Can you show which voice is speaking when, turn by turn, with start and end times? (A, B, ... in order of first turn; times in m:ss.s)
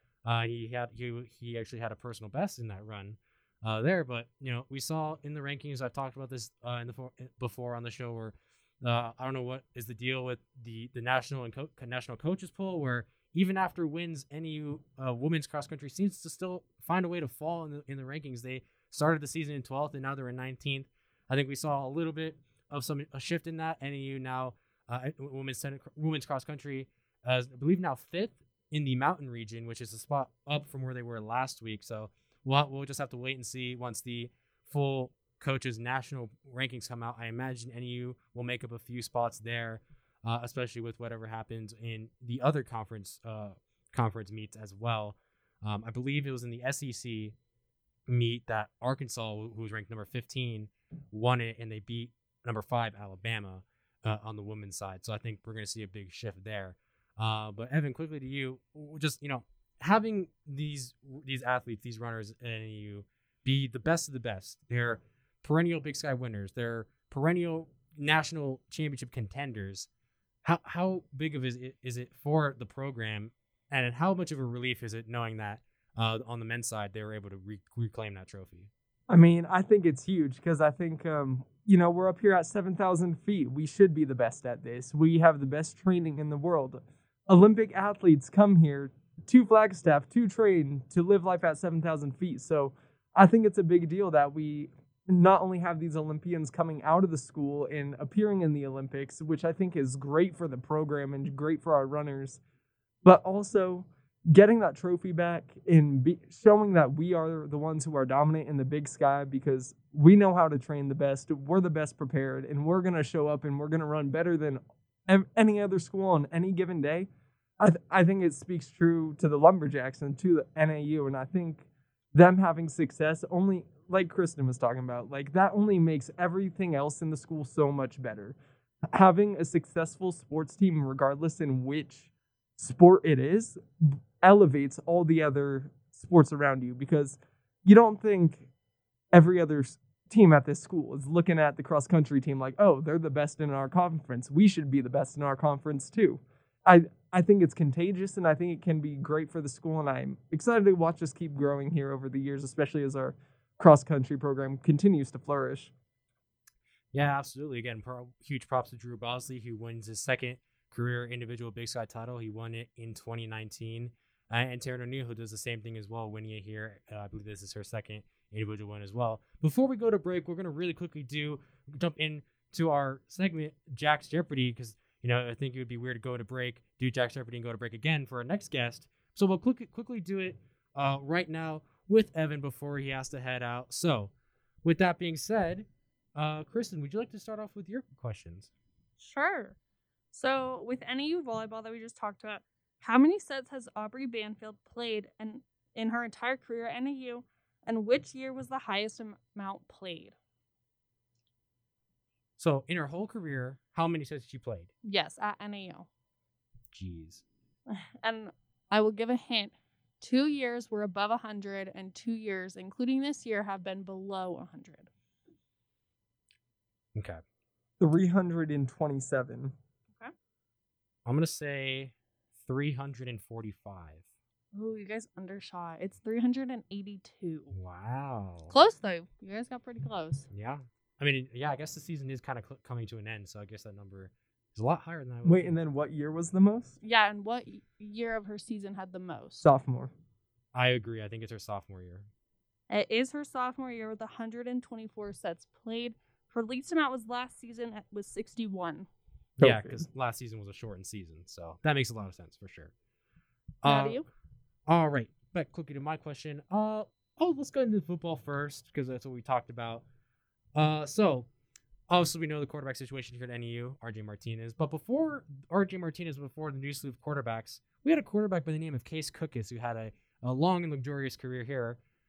0:00.2-0:47.4 A
0:48.1-1:09.9 A
1:10.4-1:18.7 A
1:19.1-1:42.4 B
1:43.0-2:08.4 B
2:08.9-2:18.5 B
2:19.1-2:35.7 B
2:36.9-3:04.1 A
3:04.6-3:08.5 A
3:09.0-3:09.6 C
3:10.1-3:20.2 C
3:22.4-3:24.7 A
3:24.8-3:25.9 C
3:26.7-3:27.2 A
3:27.7-3:34.9 C
3:37.0-3:37.2 A
3:37.8-3:39.5 B
3:41.1-3:44.0 A
3:44.5-3:47.5 C
3:47.5-3:48.5 A
3:48.5-3:50.3 C
3:50.3-3:55.6 A
3:55.2-3:56.8 B
3:56.8-3:59.4 C
3:59.4-3:59.9 B
4:00.5-4:02.1 A
4:02.7-4:08.9 C
4:09.4-4:12.7 A
4:09.4-4:09.9 B
4:13.6-4:14.0 A
4:13.6-4:14.0 C
4:14.7-4:19.8 A
4:20.6-4:21.3 A
4:21.9-4:31.8 A